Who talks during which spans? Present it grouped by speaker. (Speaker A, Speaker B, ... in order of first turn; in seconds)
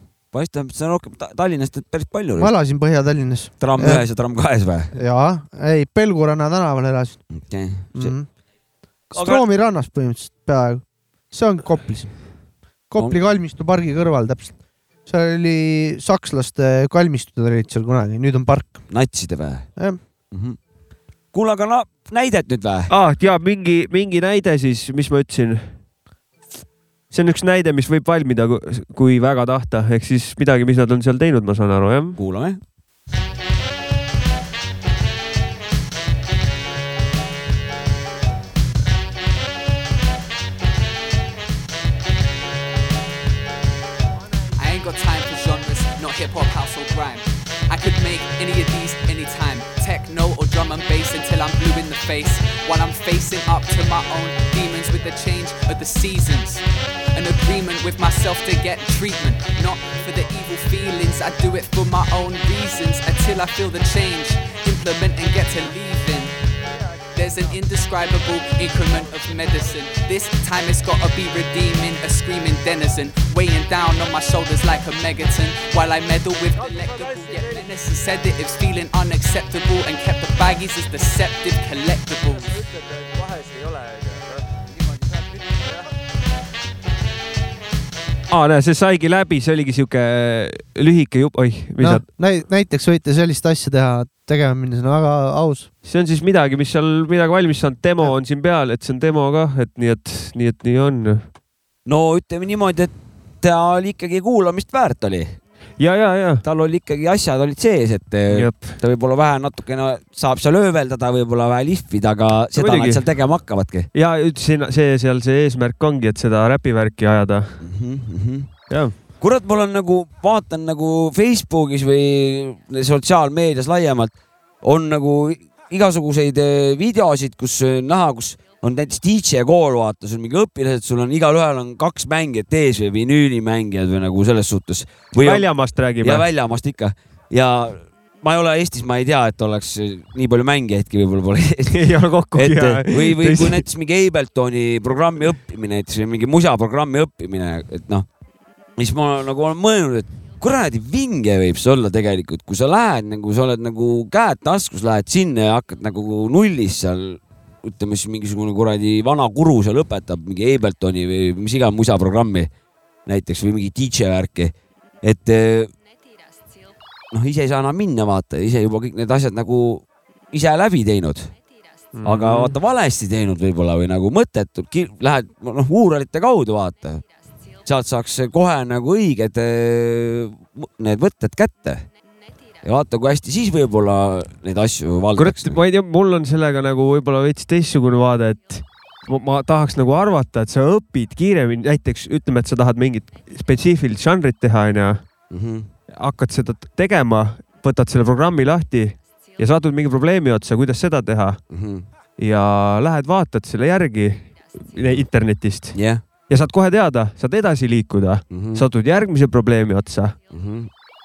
Speaker A: 0.3-2.5, 3.6-4.9, 7.3-8.2, 9.1-9.4, 18.9-19.7, 20.3-20.6, 21.3-22.9, 32.1-32.6, 101.9-105.4, 106.4-113.9, 117.6-118.5, 119.1-135.5, 136.0-141.8, 142.3-148.1, 148.8-162.5, 163.1-165.7, 167.1-171.3, 172.0-177.1, 177.6-181.9, 182.6-185.6, 195.3-195.7, 201.5-201.8, 205.7-206.0, 208.3-208.6, 210.3-210.7
Speaker B: 2.4-4.0, 4.9-7.2, 7.9-8.3, 9.1-12.3, 12.9-18.9, 91.8-95.7
Speaker C: 22.9-25.7, 27.1-32.2, 76.6-77.6, 82.5-84.5, 88.3-92.1, 95.8-101.2, 105.8-106.4, 108.3-108.8, 112.6-113.0, 113.9-117.6, 118.7-119.0, 135.2-136.3, 141.7-143.6, 171.9-172.6, 185.2-195.0, 195.9-201.4, 202.2-205.8, 206.3-210.1
Speaker D: 44.6-56.6, 57.1-66.3, 67.1-82.6